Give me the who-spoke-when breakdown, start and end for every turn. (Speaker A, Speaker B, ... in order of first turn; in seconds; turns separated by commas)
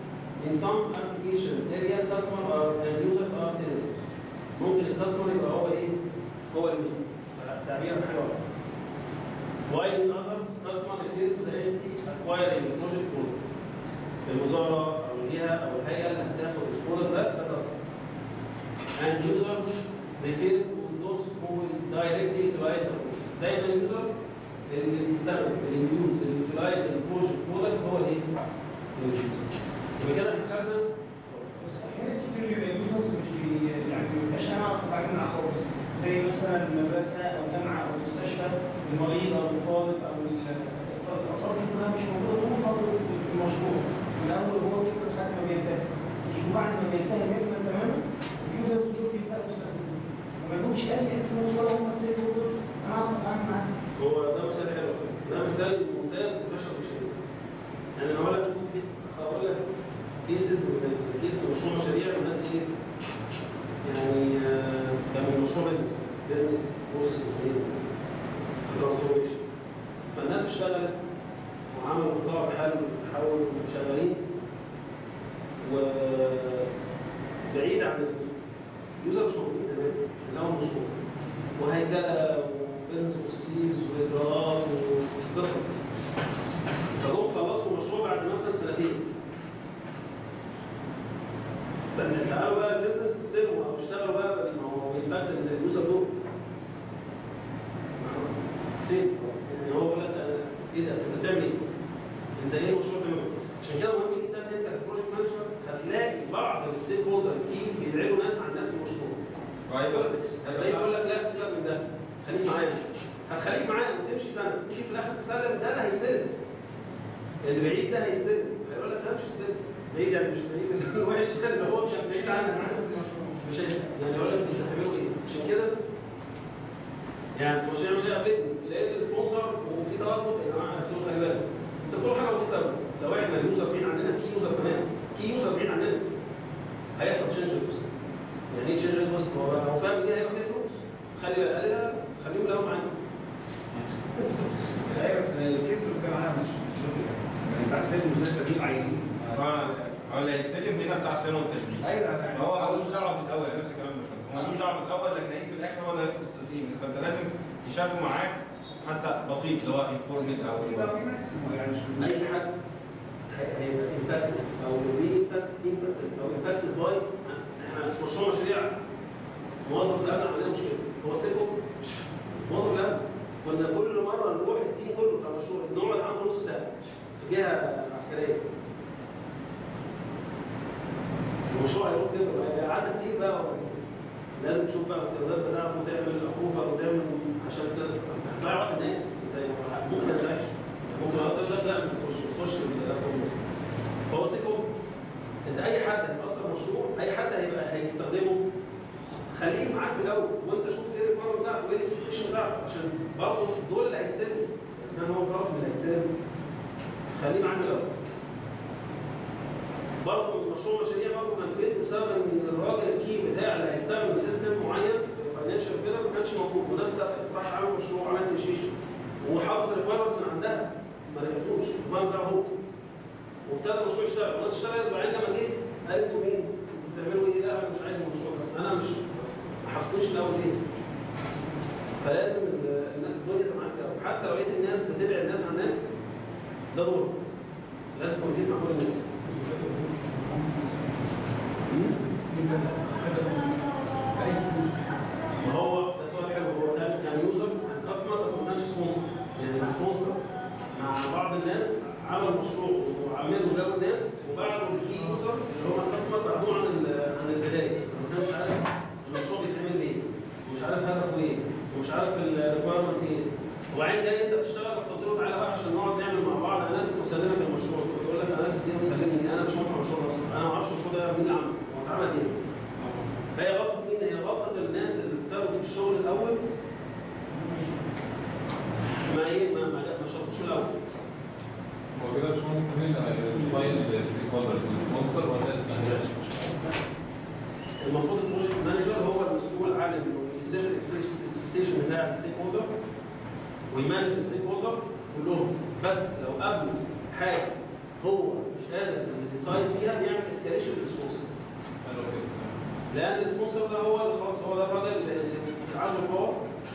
Speaker A: 0.4-5.9, Speaker A: 6.5-8.4, Speaker A: 9.7-13.4, Speaker A: 14.2-17.8, Speaker A: 19.0-19.6, Speaker A: 20.2-24.1, Speaker A: 24.7-28.2, Speaker A: 28.9-31.5, Speaker B: 31.6-53.6, Speaker A: 54.0-57.2, Speaker A: 58.0-59.6, Speaker A: 60.2-62.6, Speaker A: 63.8-67.8, Speaker A: 68.6-69.4, Speaker A: 70.1-71.0, Speaker A: 71.7-74.2, Speaker A: 75.6-76.7, Speaker A: 77.5-78.4, Speaker A: 79.0-81.0, Speaker A: 81.6-85.8, Speaker A: 86.9-89.0, Speaker A: 91.9-96.2, Speaker A: 98.0-101.6, Speaker A: 102.4-109.2, Speaker C: 109.7-110.9, Speaker A: 109.8-116.3, Speaker A: 117.4-122.8, Speaker B: 122.0-123.4, Speaker A: 123.4-125.7, Speaker A: 127.3-136.1, Speaker A: 137.0-137.8, Speaker A: 138.5-142.9, Speaker D: 144.8-149.7, Speaker C: 149.3-160.9, Speaker D: 151.8-153.1, Speaker D: 160.2-162.2, Speaker A: 162.0-162.5, Speaker A: 163.3-168.7, Speaker A: 169.6-171.6, Speaker A: 172.4-178.4, Speaker A: 181.5-183.8, Speaker A: 184.3-193.4, Speaker A: 194.1-194.7, Speaker A: 195.4-198.4, Speaker A: 199.3-206.1, Speaker A: 207.1-207.9, Speaker A: 210.0-222.5, Speaker A: 223.4-230.6, Speaker A: 232.0-235.8, Speaker A: 236.7-237.2, Speaker A: 237.9-239.1, Speaker D: 239.3-240.8, Speaker A: 241.7-242.0, Speaker D: 242.3-243.6, Speaker D: 244.2-244.9, Speaker A: 245.4-250.2, Speaker A: 250.7-272.3, Speaker E: 272.8-273.0, Speaker A: 273.3-276.4, Speaker B: 277.3-277.7, Speaker A: 279.0-280.7, Speaker E: 281.9-286.7, Speaker A: 287.8-292.7, Speaker A: 293.7-301.3, Speaker E: 301.8-302.5, Speaker A: 302.9-306.4